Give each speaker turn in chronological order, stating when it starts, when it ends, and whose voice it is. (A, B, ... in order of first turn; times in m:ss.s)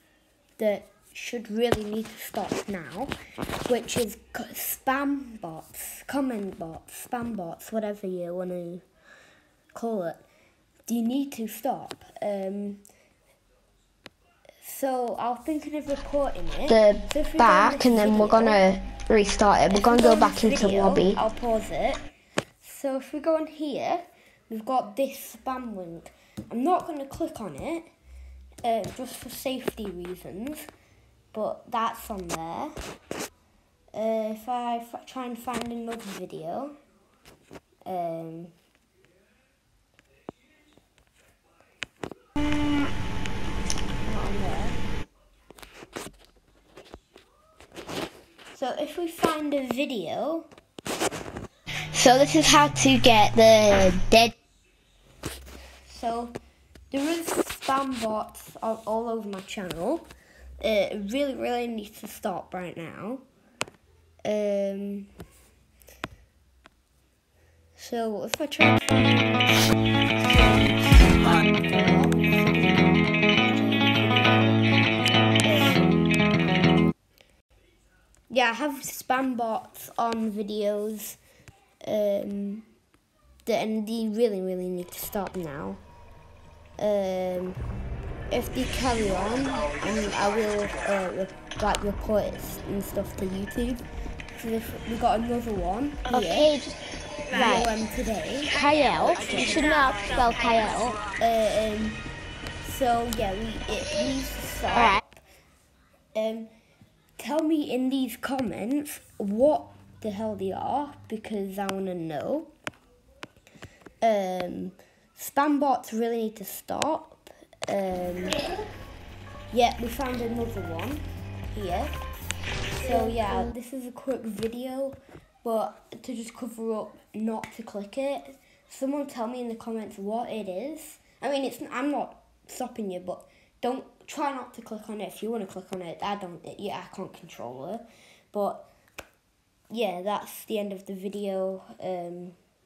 0:00.6-0:03.1 A
0:03.7-0:08.8 A
0:09.7-0:10.2 A
0:10.9-0:12.8 A
0:14.6-0:18.8 A
0:16.7-0:21.2 B
0:19.7-0:22.0 A
0:22.6-0:27.9 A
0:28.6-0:30.7 A
0:31.3-0:32.8 A
0:33.9-0:36.8 A
0:37.9-0:38.5 A
0:44.0-0:44.8 A
0:48.5-0:50.5 A
0:51.9-0:54.3 A
0:55.9-0:56.4 A
0:56.9-1:00.1 A
1:00.6-1:03.2 A
1:04.2-1:05.1 A
1:07.8-1:09.6 A
1:10.2-1:15.9 A
1:18.3-1:21.2 A
1:21.8-1:22.7 A
1:23.4-1:25.8 A
1:26.8-1:27.6 A
1:28.3-1:33.8 A
1:34.4-1:36.5 A
1:36.1-1:36.8 B
1:37.3-1:38.6 A
1:38.5-1:41.0 B
1:39.1-1:39.9 A
1:41.1-1:42.0 A
1:42.6-1:45.2 A
1:46.2-1:46.5 A
1:47.2-1:52.5 A
1:54.0-1:58.4 A
1:59.5-2:02.0 A
2:02.8-2:18.7 A
2:19.7-2:22.4 A